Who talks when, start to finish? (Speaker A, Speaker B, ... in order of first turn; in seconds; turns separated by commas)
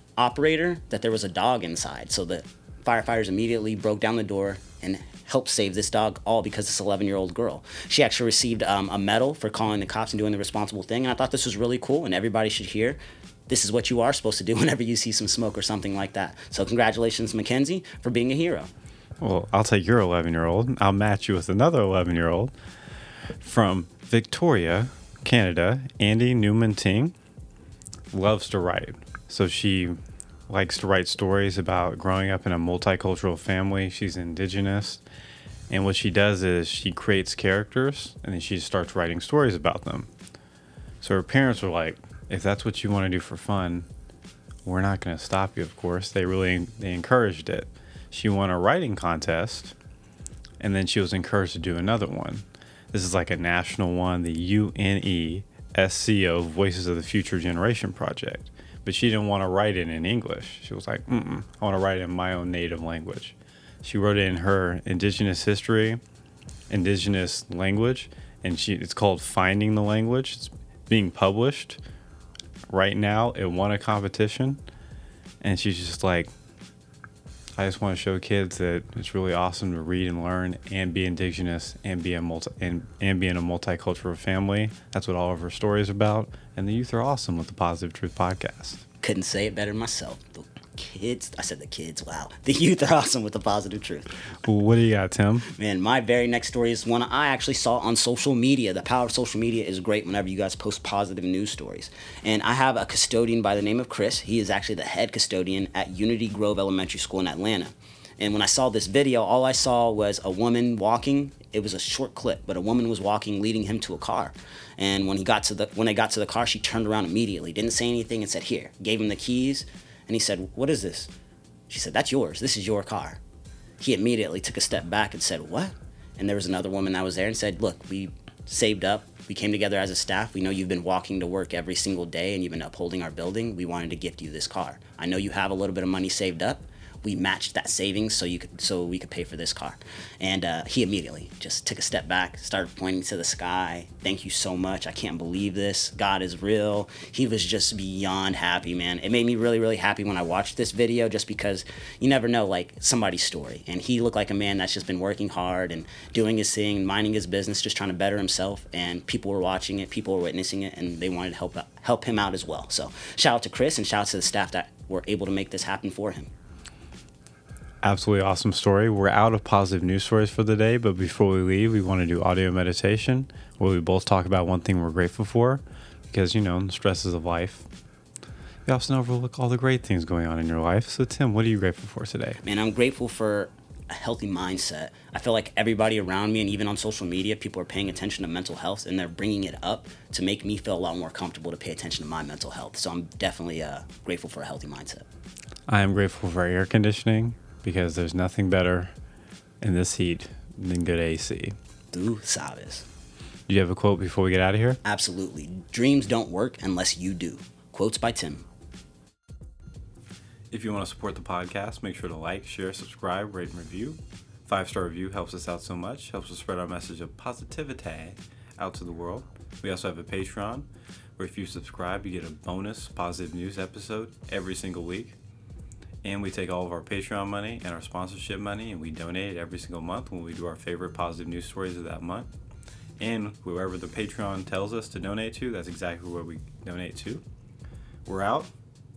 Speaker A: 0.2-13.0, Speaker A: 13.5-18.7, Speaker B: 19.2-22.5, Speaker B: 23.4-27.1, Speaker B: 28.1-30.0, Speaker B: 30.5-35.0, Speaker B: 35.7-40.1, Speaker B: 41.0-43.9, Speaker B: 44.6-49.8, Speaker B: 50.6-66.0, Speaker B: 66.7-71.8, Speaker B: 72.7-74.6, Speaker B: 75.4-76.3, Speaker B: 77.6-88.8, Speaker A: 89.0-94.1, Speaker B: 94.4-95.5, Speaker A: 95.5-121.1, Speaker A: 121.7-123.2, Speaker A: 123.8-166.3, Speaker B: 167.8-177.7, Speaker B: 178.7-182.4, Speaker A: 182.4-195.1, Speaker B: 195.7-198.9, Speaker B: 199.6-201.6, Speaker A: 201.9-202.9, Speaker B: 203.5-204.8, Speaker A: 204.8-208.5, Speaker B: 210.5-225.2, Speaker B: 226.0-232.3, Speaker B: 233.0-237.2, Speaker B: 238.1-238.5